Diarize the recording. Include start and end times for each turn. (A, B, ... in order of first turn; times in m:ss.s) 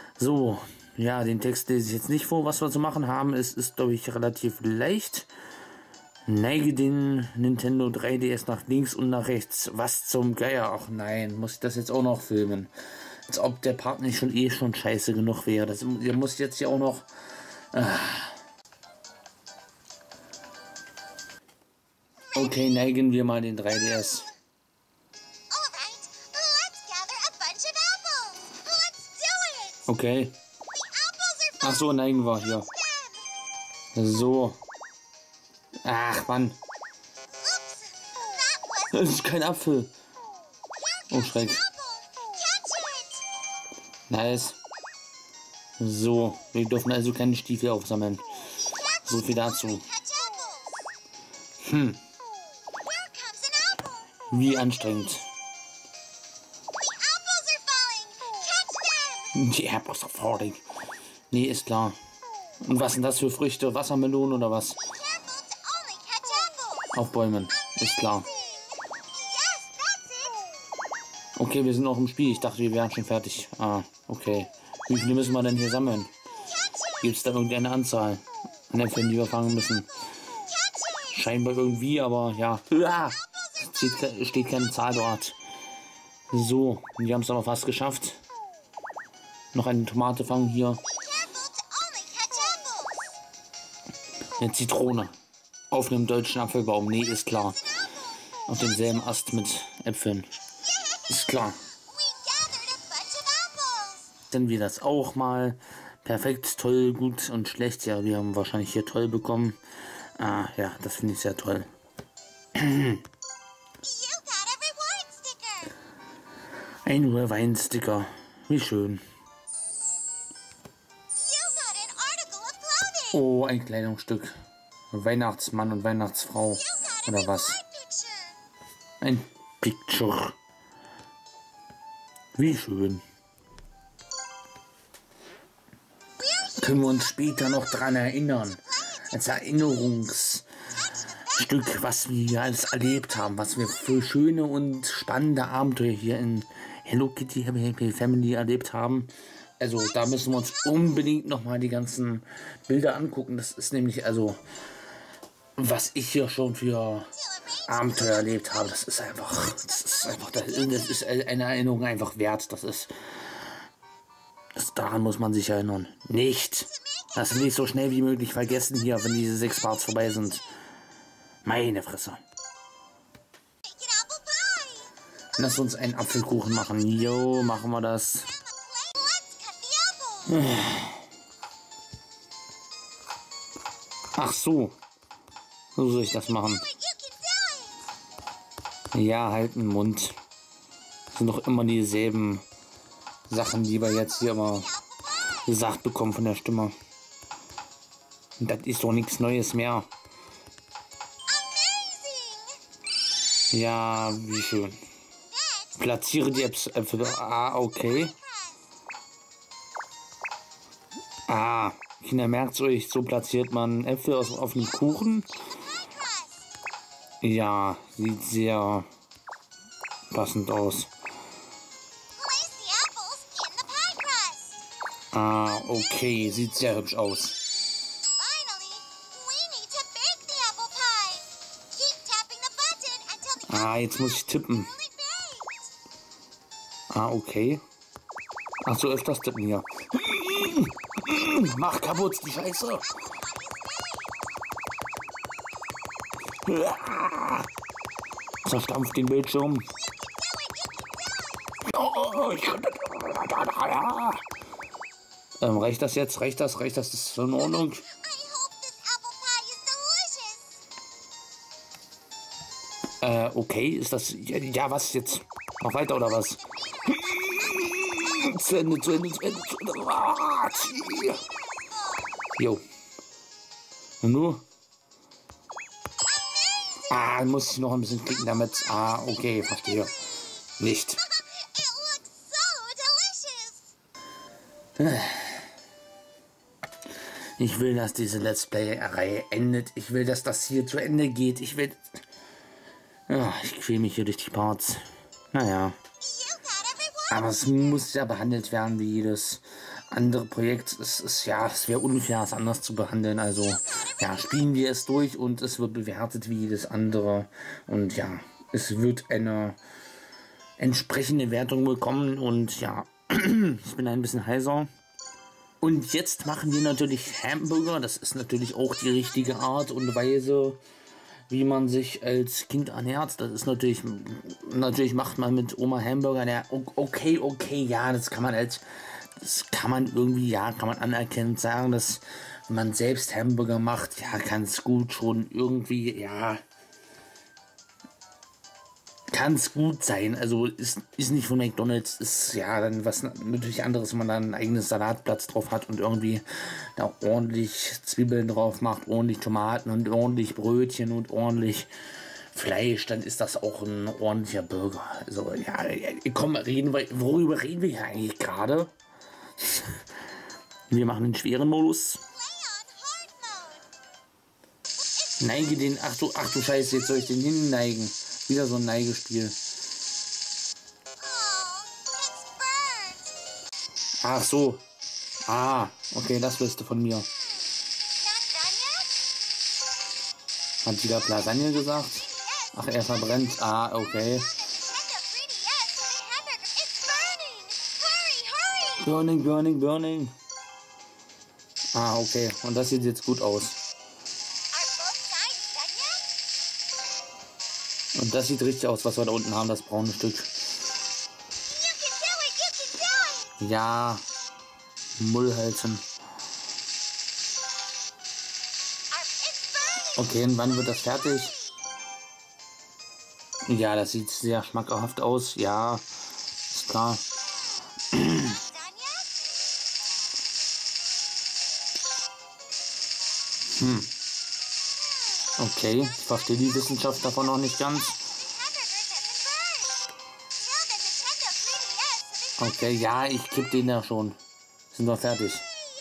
0:00.2-0:05.3 A
0:06.2-0:12.7 A
0:13.3-0:17.1 A
0:17.7-0:18.4 A
0:22.3-0:24.3 A
0:25.6-0:28.6 B
0:29.9-0:30.4 A
0:31.6-0:32.7 A
0:33.9-0:34.6 A
0:35.8-0:36.6 A
0:38.7-0:39.9 A
0:41.1-0:41.6 A
0:44.1-0:44.6 A
0:45.8-0:48.2 A
0:48.9-0:49.9 A
0:51.6-0:52.0 A
0:54.3-0:55.3 A
0:57.4-0:58.3 B
0:59.3-1:00.6 A
1:01.3-1:02.0 A
1:02.6-1:04.8 A
1:06.9-1:08.3 A
1:11.4-1:16.1 A
1:17.0-1:19.9 A
1:21.1-1:25.4 A
1:26.3-1:28.2 A
1:29.5-1:30.8 A
1:31.9-1:32.9 B
1:34.4-1:35.1 A
1:35.7-1:37.6 A
1:38.5-1:40.3 A
1:41.1-1:41.6 A
1:42.4-1:43.8 B
1:44.3-1:49.6 A
1:50.2-1:51.7 A
1:52.5-1:53.0 A
1:54.1-1:55.6 B
1:56.8-1:59.0 A
2:01.4-2:02.7 B
2:03.0-2:04.3 A
2:04.9-2:07.6 A
2:09.0-2:10.4 A
2:12.4-2:13.0 A
2:16.6-2:20.4 A
2:21.3-2:34.4 A
2:35.6-2:37.1 A
2:37.6-2:43.4 A
2:44.5-2:50.4 A
2:51.4-2:52.2 A
2:55.4-2:58.3 A
3:00.2-3:01.0 A
3:04.2-3:04.8 A
3:05.8-3:06.7 A
3:08.9-3:10.2 A
3:11.1-3:12.4 A
3:13.3-3:14.8 A
3:15.4-3:16.7 A
3:18.4-3:19.9 A
3:21.9-3:22.4 B
3:23.5-3:24.8 A
3:25.8-3:28.2 A
3:31.3-3:35.4 A
3:37.2-3:38.9 A
3:40.1-3:40.9 A
3:42.3-3:44.5 B
3:45.1-3:47.4 A
3:48.3-3:51.3 B
3:51.8-3:53.2 B
3:53.4-3:54.8 A
3:56.9-3:57.6 A
3:58.6-4:03.0 A
4:06.4-4:07.5 A
4:08.4-4:09.7 A
4:11.6-4:14.2 A
4:15.4-4:17.9 A
4:18.3-4:20.4 B
4:23.0-4:31.2 A
4:32.3-4:32.6 A
4:34.0-4:34.4 A
4:36.9-4:39.9 A
4:40.6-4:41.0 A
4:42.4-4:43.5 B
4:44.8-4:45.5 A
4:47.4-4:52.0 A
4:53.1-4:55.8 A
4:57.1-5:09.6 A
5:10.6-5:14.7 A
5:15.6-5:20.6 A
5:21.3-5:36.4 A
5:39.1-5:51.7 A
5:52.3-5:58.7 A
5:59.4-5:59.9 A
6:00.7-6:02.0 A
6:05.2-6:09.4 A
6:14.0-6:14.6 A
6:15.3-6:17.1 A
6:18.2-6:18.9 B
6:20.6-6:24.3 A
6:24.9-6:28.6 B
6:28.6-6:30.1 A
6:31.7-6:33.6 A
6:34.7-6:36.0 B
6:37.9-6:40.3 A
6:41.9-6:42.8 B
6:43.3-6:44.0 A
6:45.0-6:45.8 A
6:49.8-6:51.4 A
6:53.4-6:55.8 A
6:56.5-6:57.0 A
6:57.9-6:58.4 A
7:03.5-7:03.9 A
7:05.4-7:08.0 A
7:09.1-7:09.7 B
7:10.8-7:12.0 B
7:12.4-7:14.2 A
7:14.7-7:15.4 A